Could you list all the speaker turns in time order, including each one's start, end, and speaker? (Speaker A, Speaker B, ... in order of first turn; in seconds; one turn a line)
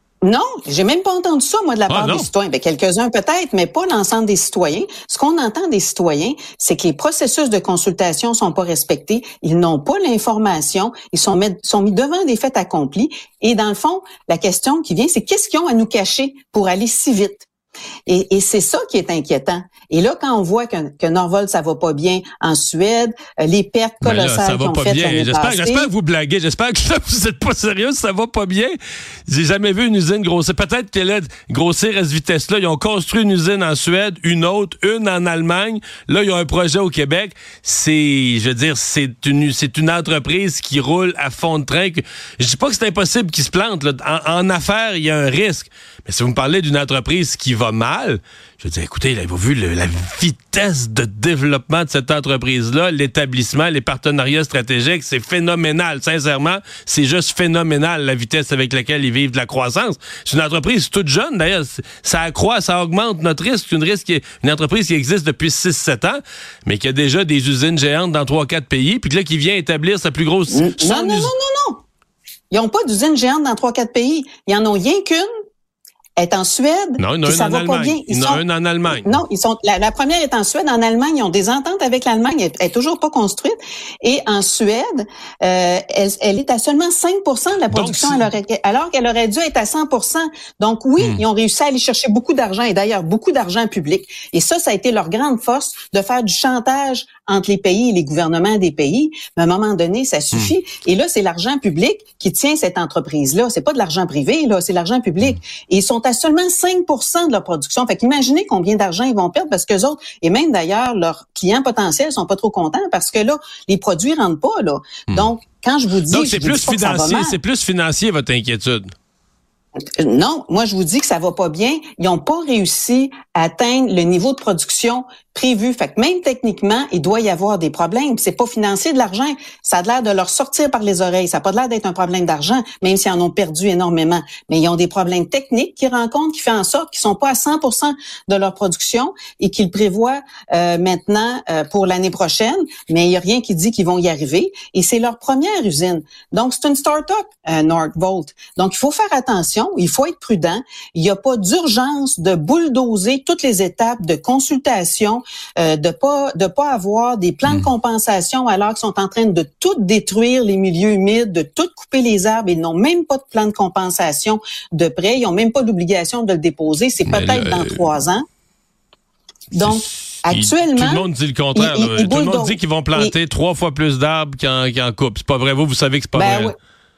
Speaker A: 0.2-17.4
Speaker B: 1.9-2.3
Speaker A: 18.1-25.9
Speaker B: 24.0-28.8
Speaker B: 29.3-71.3
Speaker A: 70.5-71.8
Speaker A: 72.5-75.3
Speaker A: 76.2-117.4
Speaker B: 77.0-79.2
Speaker B: 87.7-88.3
Speaker B: 116.0-118.9
Speaker A: 120.0-168.2
Speaker B: 167.1-167.8
Speaker A: 169.5-173.1
Speaker B: 169.5-176.5
Speaker A: 176.1-176.5